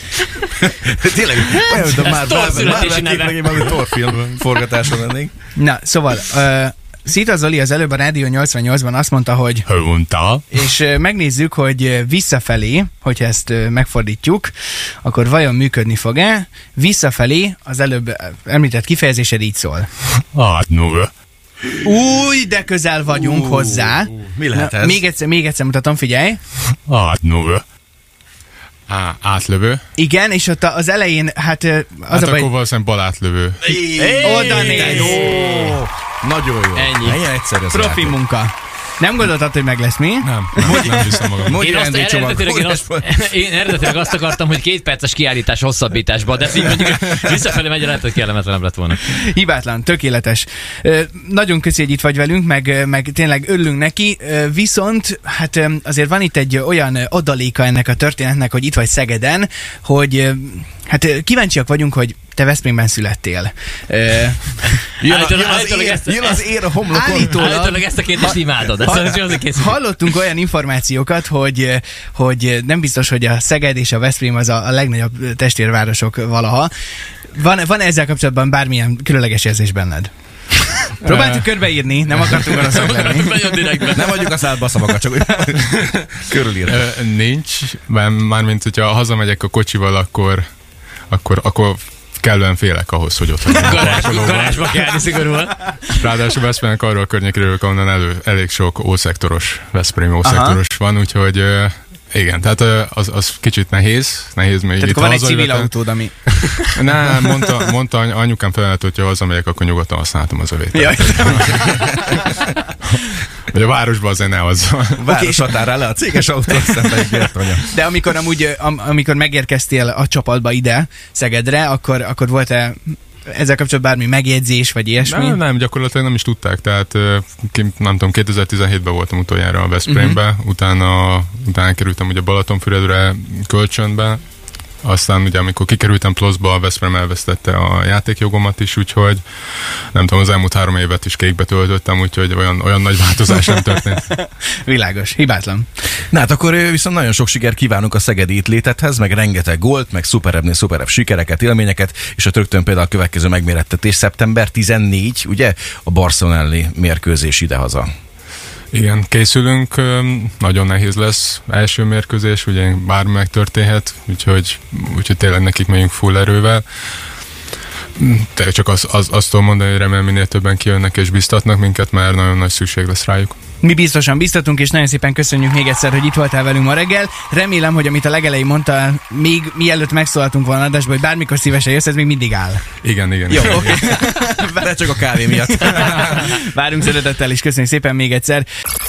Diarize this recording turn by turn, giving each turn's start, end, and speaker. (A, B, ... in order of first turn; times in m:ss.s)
0:00.6-0:05.3 A
0:01.8-0:03.8 B
0:05.6-0:09.7 C
0:09.7-0:10.4 D
0:10.5-0:19.9 C
0:20.3-0:21.1 D
0:21.8-0:26.4 C
0:23.1-0:25.0 A
0:26.9-0:27.6 D
0:28.9-0:29.8 D
0:30.0-0:32.5 C
0:32.1-0:33.8 D
0:33.7-0:38.2 A
0:33.9-0:35.6 B
0:34.2-0:35.4 C
0:36.7-0:37.2 B
0:37.7-0:40.9 C
0:40.2-0:41.7 D
0:40.6-0:43.1 A
0:41.5-0:49.0 B
0:49.1-1:04.6 C
1:05.0-1:06.5 B
1:05.0-1:07.5 A
1:06.9-1:07.8 C
1:07.0-1:09.8 B
1:08.8-1:16.7 C
1:17.3-1:20.1 C
1:20.9-1:23.7 C
1:21.0-1:21.4 D
1:22.6-1:24.3 B
1:23.9-1:26.8 A
1:26.7-1:30.4 D
1:31.1-1:35.0 D
1:33.5-1:35.8 B
1:35.8-1:45.7 D
1:40.2-1:40.6 C
1:44.8-1:46.6 C
1:46.7-1:53.0 D
1:50.7-1:51.7 C
1:53.5-1:55.1 D
1:55.0-1:57.7 A
1:55.1-1:55.4 C
1:57.7-2:05.4 C
2:05.0-2:14.2 D
2:09.9-2:10.2 C
2:14.8-2:19.2 D
2:19.9-2:24.1 D
2:24.1-2:25.7 C
2:26.1-2:37.9 A
2:38.7-2:46.6 D
2:48.0-2:53.4 D
2:53.6-3:02.6 C
3:02.8-3:03.8 D
3:03.3-3:06.3 A
3:03.3-3:08.5 C